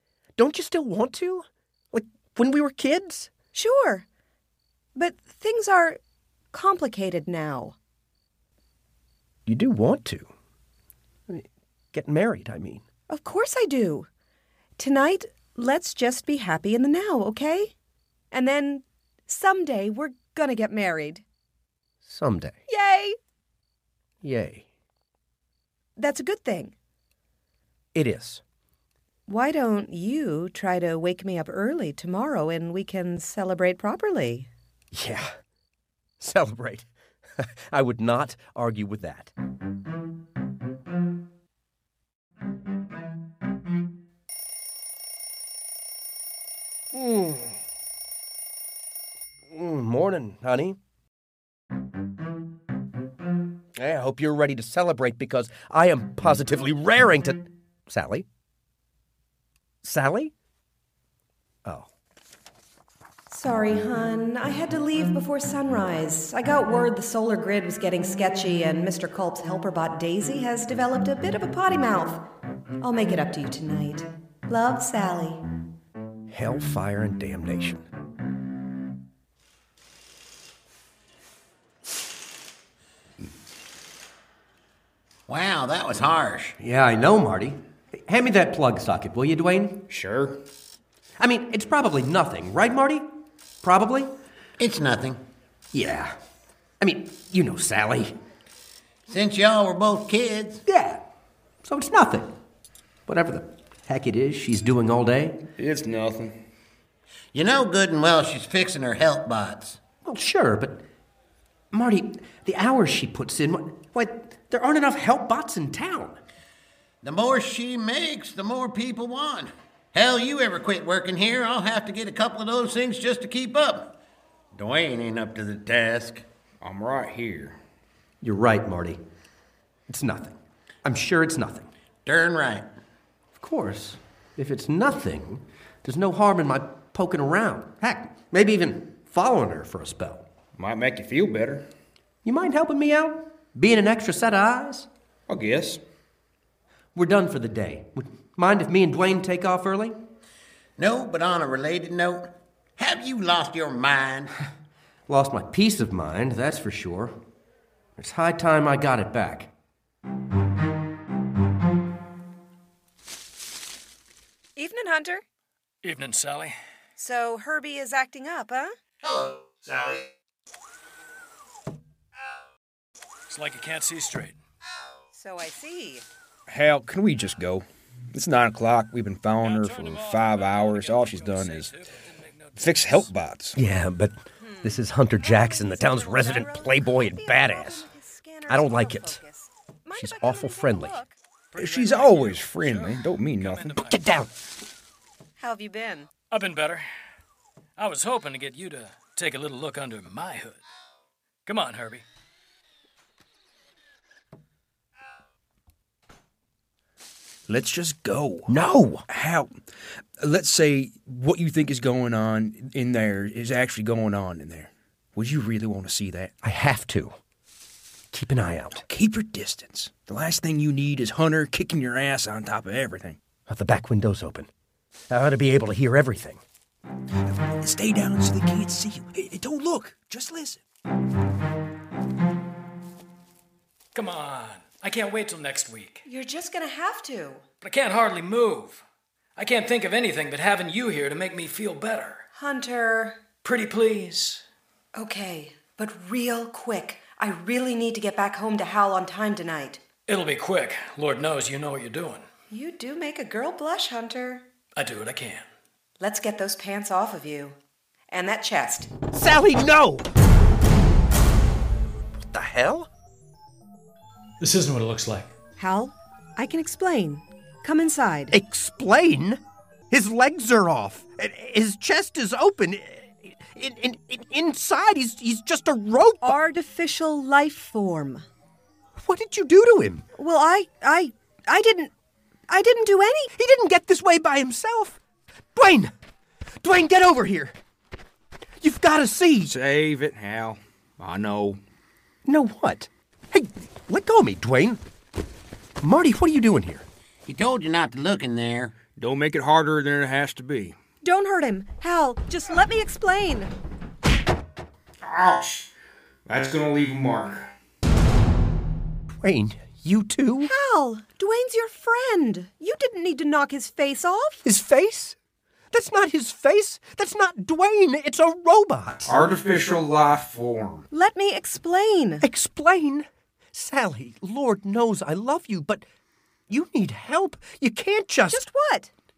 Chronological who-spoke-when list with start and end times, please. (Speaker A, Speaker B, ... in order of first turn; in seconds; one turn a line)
Speaker A: 0.4-3.3
Speaker B: 3.5-4.1
Speaker B: 5.0-6.0
Speaker B: 6.5-7.8
Speaker A: 9.5-10.3
Speaker A: 11.3-12.8
Speaker B: 13.1-14.1
Speaker B: 14.8-17.7
Speaker B: 18.3-21.2
Speaker A: 22.0-22.6
Speaker B: 22.7-23.2
Speaker A: 24.2-24.7
Speaker B: 26.0-26.7
Speaker A: 27.9-28.4
Speaker B: 29.3-34.5
Speaker A: 34.9-35.3
Speaker A: 36.2-36.9
Speaker A: 37.4-39.3
Speaker A: 46.9-47.6
Speaker A: 49.5-50.8
Speaker A: 53.8-58.3
Speaker A: 59.8-60.3
Speaker B: 63.3-72.2
Speaker B: 72.8-75.4
Speaker A: 76.3-77.8
Speaker C: 85.3-86.6
Speaker A: 86.6-89.8
Speaker D: 89.9-90.4
Speaker A: 91.2-93.1
Speaker A: 93.6-94.1
Speaker C: 94.6-95.2
Speaker A: 95.7-96.2
Speaker A: 96.8-98.1
Speaker C: 99.1-100.6
Speaker A: 100.7-101.0
Speaker A: 101.6-102.3
Speaker A: 103.1-105.4
Speaker D: 105.6-106.3
Speaker C: 107.3-109.8
Speaker A: 110.0-110.8
Speaker A: 111.7-116.2
Speaker C: 117.0-123.9
Speaker C: 124.5-126.2
Speaker D: 126.6-127.6
Speaker A: 128.2-129.0
Speaker A: 129.9-131.7
Speaker C: 132.1-132.7
Speaker A: 133.3-140.3
Speaker D: 140.6-141.7
Speaker A: 142.2-144.9
Speaker D: 145.3-145.8
Speaker A: 146.9-149.9
Speaker C: 150.8-154.3
Speaker A: 155.1-157.2
Speaker A: 158.0-159.5
Speaker B: 164.6-165.2
Speaker E: 165.8-166.6
Speaker B: 167.0-168.7
Speaker C: 169.0-170.0
Speaker E: 173.3-174.4
Speaker B: 175.1-176.1
Speaker D: 176.5-181.7
Speaker E: 179.4-183.1
Speaker D: 182.6-183.6
Speaker A: 183.6-187.9
Speaker B: 184.4-191.2
Speaker A: 188.5-189.2
Speaker A: 189.9-191.0
Speaker E: 191.5-194.0
Speaker D: 191.6-193.8
Speaker A: 193.8-194.3
Speaker B: 195.4-196.1
Speaker E: 196.3-196.8
Speaker E: 197.8-200.6
Speaker E: 201.5-202.0
Speaker D: 207.5-208.6
Speaker A: 208.5-209.0
Speaker D: 209.1-209.5
Speaker D: 210.2-216.3
Speaker A: 216.4-217.2
Speaker A: 218.1-218.8
Speaker D: 218.8-223.2
Speaker A: 223.5-224.5
Speaker A: 225.1-226.4
Speaker D: 227.3-230.6
Speaker E: 233.9-236.0
Speaker B: 236.1-237.4
Speaker E: 237.6-238.8
Speaker E: 239.4-242.2
Speaker B: 242.3-243.2
Speaker E: 243.4-244.4
Speaker B: 244.9-249.8
Speaker E: 250.1-252.3
Speaker B: 252.5-254.4
Speaker E: 254.8-255.4
Speaker B: 256.0-257.6
Speaker B: 258.1-258.9
Speaker A: 259.1-260.1
Speaker A: 262.3-262.9
Speaker E: 264.4-265.3
Speaker B: 265.6-268.4
Speaker A: 268.3-276.4
Speaker B: 276.2-278.2
Speaker A: 279.0-280.1
Speaker B: 280.2-281.9
Speaker B: 282.5-283.3
Speaker A: 283.3-285.0
Speaker A: 285.5-285.9
Speaker A: 286.6-287.6
Speaker A: 288.6-289.5
Speaker D: 289.4-291.6
Speaker A: 292.2-294.8
Speaker A: 295.8-296.9
Speaker C: 297.3-298.8
Speaker D: 298.8-300.8
Speaker B: 301.0-303.5
Speaker D: 305.0-305.7
Speaker D: 306.3-307.5
Speaker A: 309.2-310.5
Speaker B: 310.4-314.4
Speaker A: 314.4-315.1
Speaker A: 315.7-319.1
Speaker D: 319.1-320.8
Speaker B: 320.9-322.2
Speaker A: 322.2-325.9
Speaker A: 326.5-328.4
Speaker B: 328.3-328.9